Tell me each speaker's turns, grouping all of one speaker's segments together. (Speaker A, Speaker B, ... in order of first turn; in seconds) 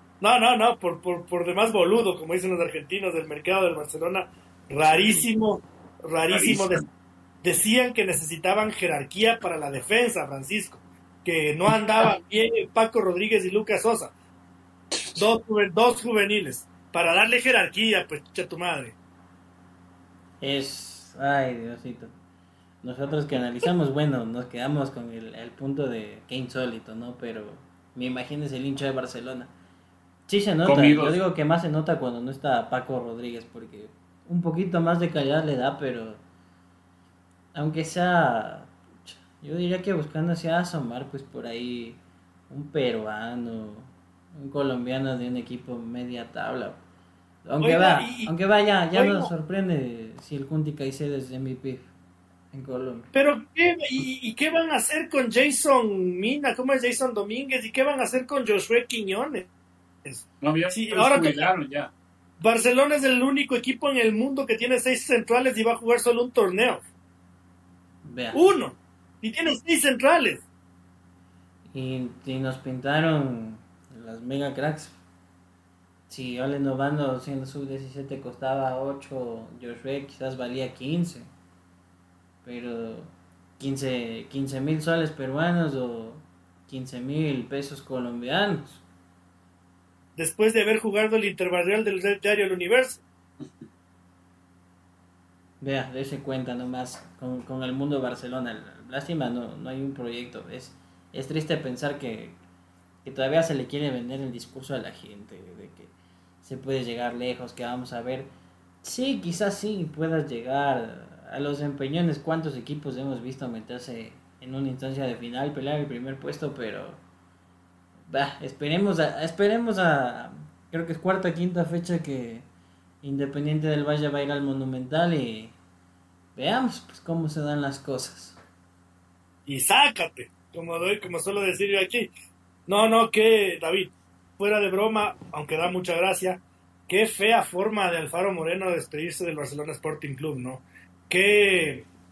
Speaker A: 0.2-6.8, 7.4-14.1, 15.2-18.9, 47.6-48.3, 48.9-49.3, 53.1-59.5, 60.0-61.5, 62.4-66.8, 68.3-70.4, 90.2-93.0, 129.4-132.1, 132.7-141.9
Speaker B: 4.8-5.2, 6.3-6.9, 14.9-15.2, 30.6-31.2, 60.4-61.9
Speaker C: 20.4-22.1, 22.8-29.5, 30.3-36.2, 37.5-42.0, 42.5-46.8, 47.4-51.9, 52.5-53.1, 68.0-68.4, 71.7-75.0, 76.1-81.3, 82.4-88.8, 95.6-102.3, 103.0-108.3, 108.8-117.0, 118.1-122.4, 123.0-125.5, 126.3-128.4